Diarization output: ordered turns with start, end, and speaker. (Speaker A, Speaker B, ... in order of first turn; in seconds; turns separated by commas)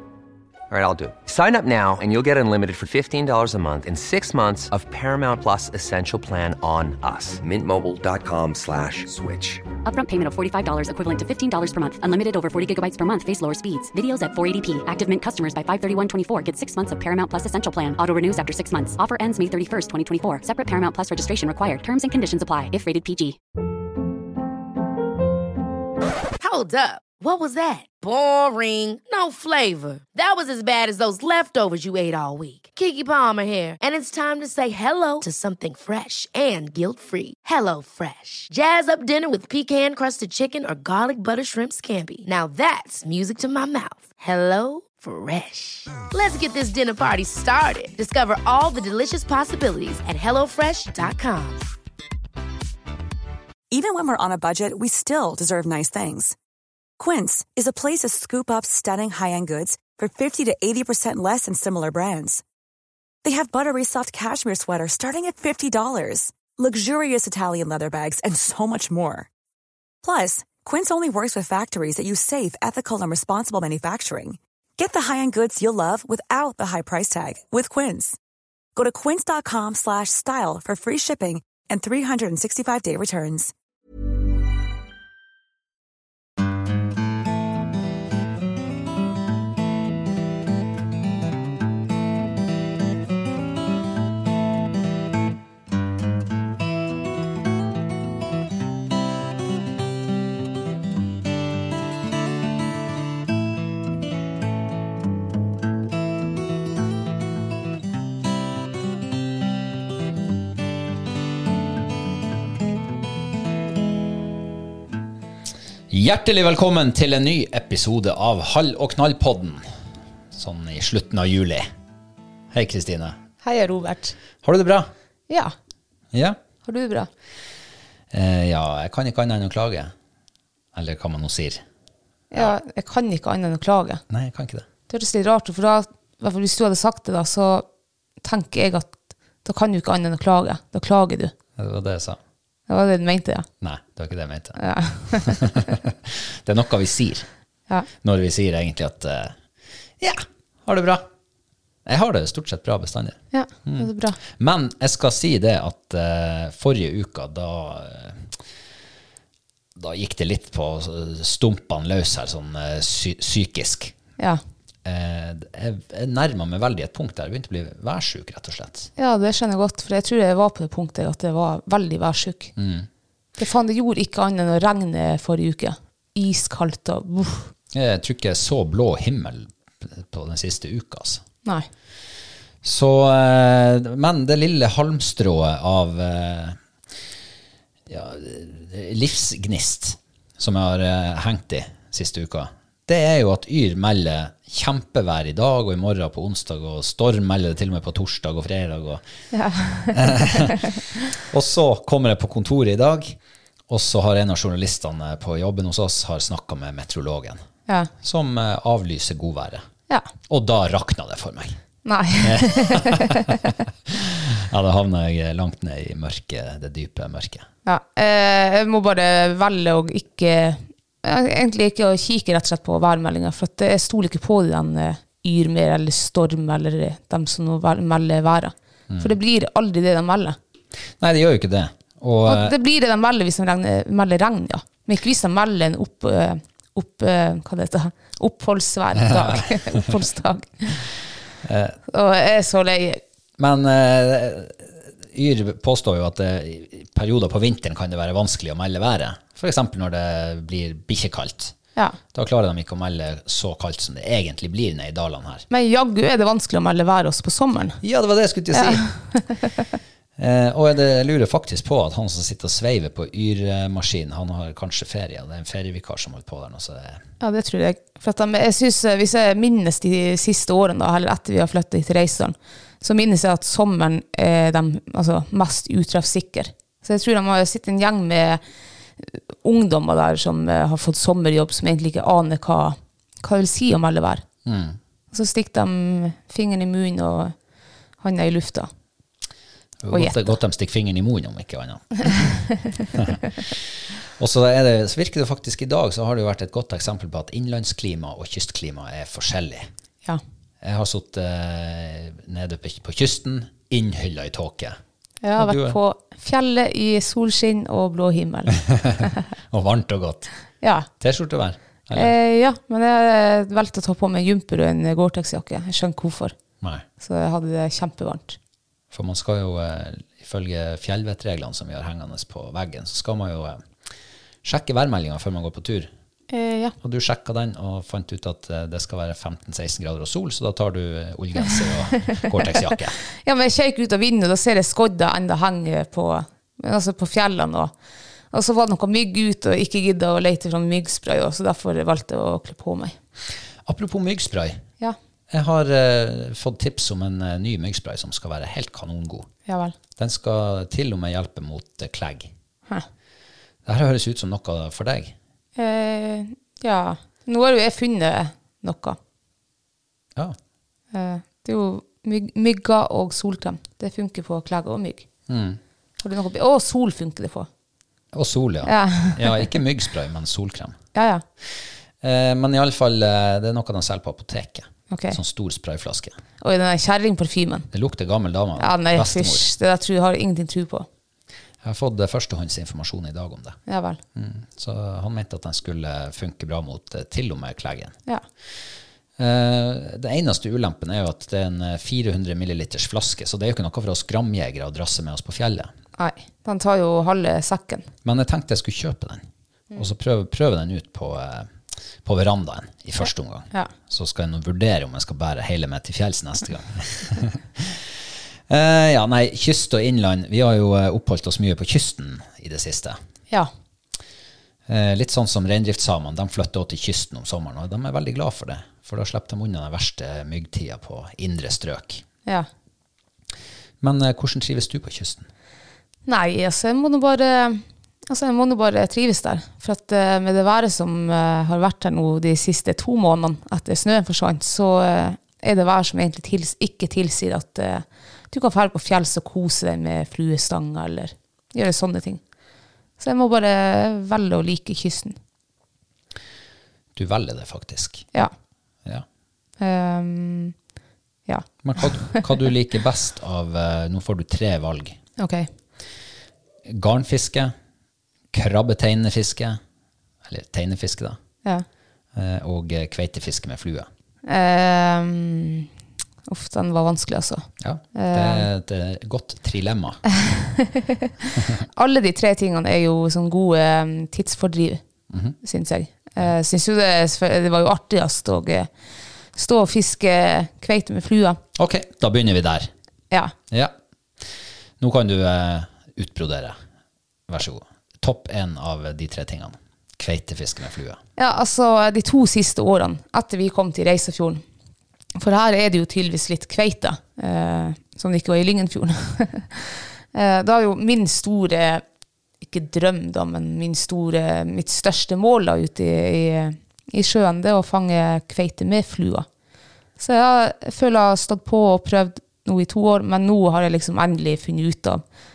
Speaker A: 0.7-9.6, Speaker B: 9.8-23.4, Speaker C: 26.4-51.6, Speaker D: 53.7-56.4, Speaker D: 57.0-62.4, Speaker D: 63.2-69.3, Speaker D: 70.0-78.2, Speaker D: 78.8-83.5, Speaker E: 115.9-119.7, Speaker E: 120.3-121.7, Speaker E: 122.5-123.2, Speaker F: 123.4-124.2, Speaker E: 124.4-124.9, Speaker F: 125.3-125.5, Speaker E: 126.1-126.4, Speaker F: 126.6-127.1, Speaker E: 128.1-129.9, Speaker E: 130.7-131.6, Speaker F: 132.3-134.0, Speaker E: 134.1-134.7, Speaker F: 134.9-137.7, Speaker F: 138.2-141.3, Speaker E: 141.6-142.2, Speaker F: 142.7-143.5, Speaker E: 143.6-144.6, Speaker F: 144.6-145.4, Speaker E: 145.1-147.3, Speaker E: 148.0-149.4, Speaker E: 150.0-151.1, Speaker E: 151.9-158.3, Speaker F: 153.3-154.2, Speaker E: 159.8-163.9, Speaker E: 164.8-168.9, Speaker F: 169.0-172.5, Speaker E: 172.6-172.9, Speaker F: 173.4-177.5, Speaker E: 177.7-181.2, Speaker E: 182.6-186.6, Speaker E: 187.9-199.0, Speaker F: 199.3-200.7, Speaker E: 199.9-203.2, Speaker E: 203.7-207.4, Speaker E: 208.0-209.6, Speaker E: 210.3-211.6, Speaker F: 211.8-213.4, Speaker E: 212.2-217.5, Speaker F: 217.7-230.4, Speaker E: 228.9-229.2, Speaker E: 231.0-232.5, Speaker F: 232.2-240.8, Speaker E: 239.0-240.0, Speaker E: 241.4-241.8, Speaker F: 241.9-243.0, Speaker E: 243.4-251.6, Speaker E: 252.1-255.4, Speaker F: 255.5-257.8, Speaker E: 257.8-258.9, Speaker F: 258.5-259.5, Speaker E: 260.2-267.0, Speaker F: 267.2-278.4, Speaker F: 279.0-284.2, Speaker E: 284.4-284.8, Speaker F: 285.1-287.3, Speaker F: 288.0-288.7, Speaker E: 289.8-299.7, Speaker F: 289.9-290.4, Speaker E: 300.6-304.8, Speaker F: 305.2-308.6, Speaker E: 305.4-305.8, Speaker E: 308.6-310.3, Speaker F: 310.6-310.9, Speaker E: 311.0-312.1, Speaker F: 311.9-316.4, Speaker F: 317.0-318.4, Speaker E: 318.9-323.6, Speaker E: 324.4-325.9, Speaker F: 326.3-326.8, Speaker E: 326.8-333.0, Speaker F: 333.2-337.7, Speaker F: 338.3-343.0, Speaker E: 343.7-344.6, Speaker E: 345.3-349.3, Speaker F: 349.5-349.7, Speaker E: 350.0-352.3, Speaker E: 353.6-355.1, Speaker F: 355.6-359.0, Speaker F: 360.9-365.1, Speaker E: 365.3-365.6, Speaker F: 366.0-367.5, Speaker E: 368.1-370.8, Speaker F: 368.7-369.5, Speaker F: 370.9-371.2, Speaker E: 372.0-376.2, Speaker F: 374.9-375.2, Speaker F: 376.4-377.7, Speaker E: 377.7-379.5, Speaker F: 378.6-380.9, Speaker E: 381.6-383.6, Speaker F: 383.7-384.0, Speaker E: 384.1-388.0, Speaker E: 389.2-395.7, Speaker F: 396.0-397.9, Speaker E: 398.1-399.2, Speaker E: 399.8-401.5, Speaker E: 402.1-407.9, Speaker E: 408.5-413.0, Speaker E: 414.7-422.0, Speaker E: 423.8-425.3, Speaker F: 426.1-442.2, Speaker F: 443.0-445.2, Speaker E: 447.0-448.1, Speaker F: 449.6-450.6, Speaker F: 451.3-452.3, Speaker E: 451.6-455.0, Speaker F: 455.2-455.5, Speaker E: 456.7-457.5, Speaker E: 458.3-459.6, Speaker E: 460.2-461.2, Speaker E: 462.1-463.9, Speaker F: 464.3-465.7, Speaker F: 466.3-468.5, Speaker E: 467.6-470.0, Speaker F: 470.2-474.8, Speaker E: 475.1-475.4, Speaker F: 475.4-478.7, Speaker F: 479.4-481.4, Speaker E: 481.6-482.7, Speaker E: 484.8-486.6, Speaker E: 487.3-491.0, Speaker F: 491.2-494.4, Speaker F: 495.2-501.8, Speaker F: 502.4-509.3, Speaker F: 510.0-515.0